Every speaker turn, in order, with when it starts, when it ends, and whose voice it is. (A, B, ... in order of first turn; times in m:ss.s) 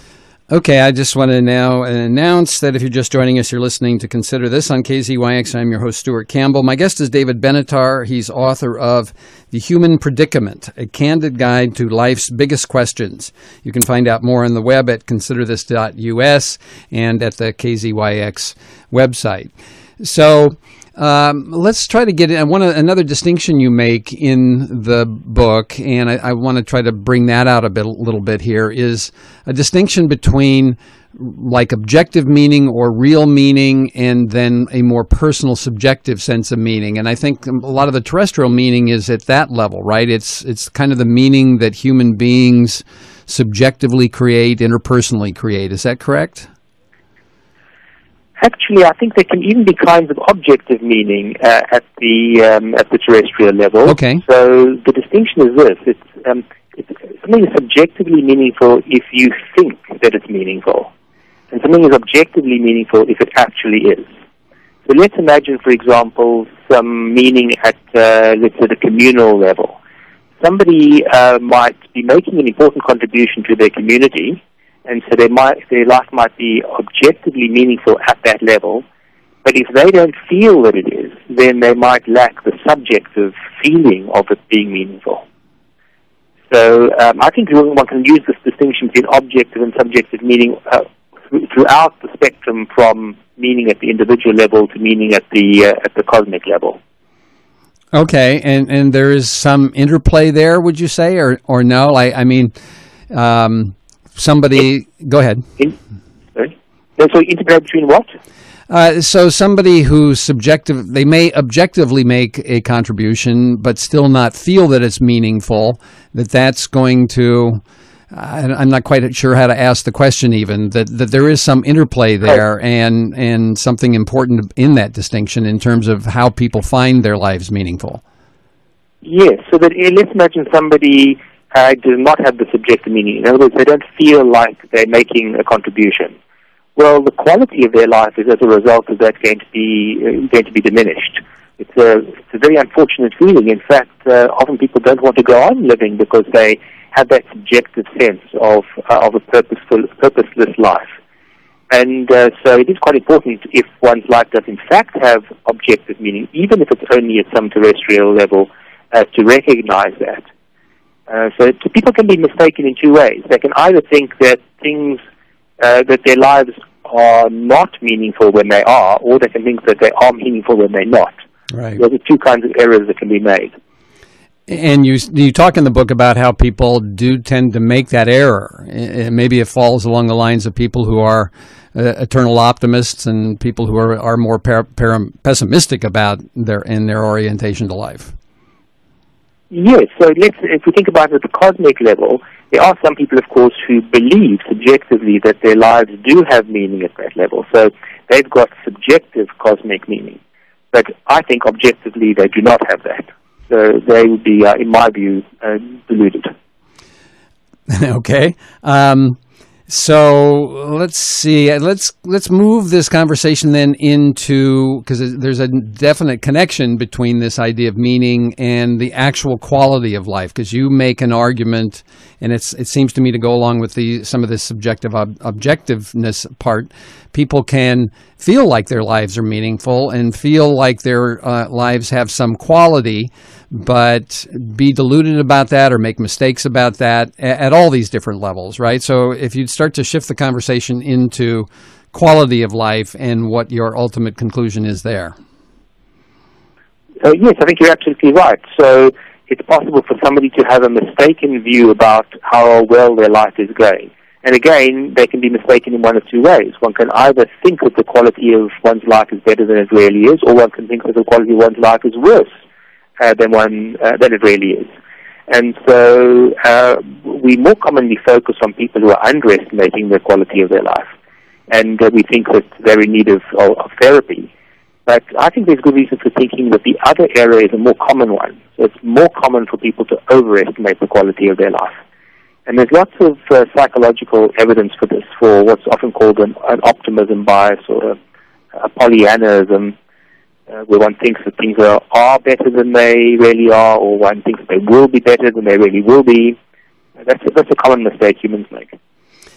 0:00.5-0:46.5 A
0:48.4-1:00.9 B
0:53.9-0:54.2 A
1:01.5-1:04.1 B
1:04.9-1:09.8 B
1:10.4-1:18.8 B
1:19.4-1:25.2 B
1:26.5-1:36.8 B
1:37.9-1:42.5 A
1:43.1-1:45.4 A
1:46.4-1:48.1 B
1:48.7-2:08.0 A
2:09.0-2:16.2 B
2:16.8-2:30.9 B
2:31.7-2:40.2 B
2:41.1-2:45.0 B
2:45.6-2:51.2 B
2:51.5-2:51.8 A
2:51.8-2:53.5 B
2:54.5-3:08.1 A
3:09.5-3:20.2 B
3:20.7-3:26.3 B
3:27.7-4:05.2 A
4:07.0-4:22.3 B
4:23.0-4:24.7 B
4:25.3-4:30.9 B
4:31.5-4:34.3 B
4:34.9-4:41.8 B
4:42.5-4:48.0 B
4:48.6-4:49.8 B
4:50.5-4:56.4 B
4:57.0-4:58.8 B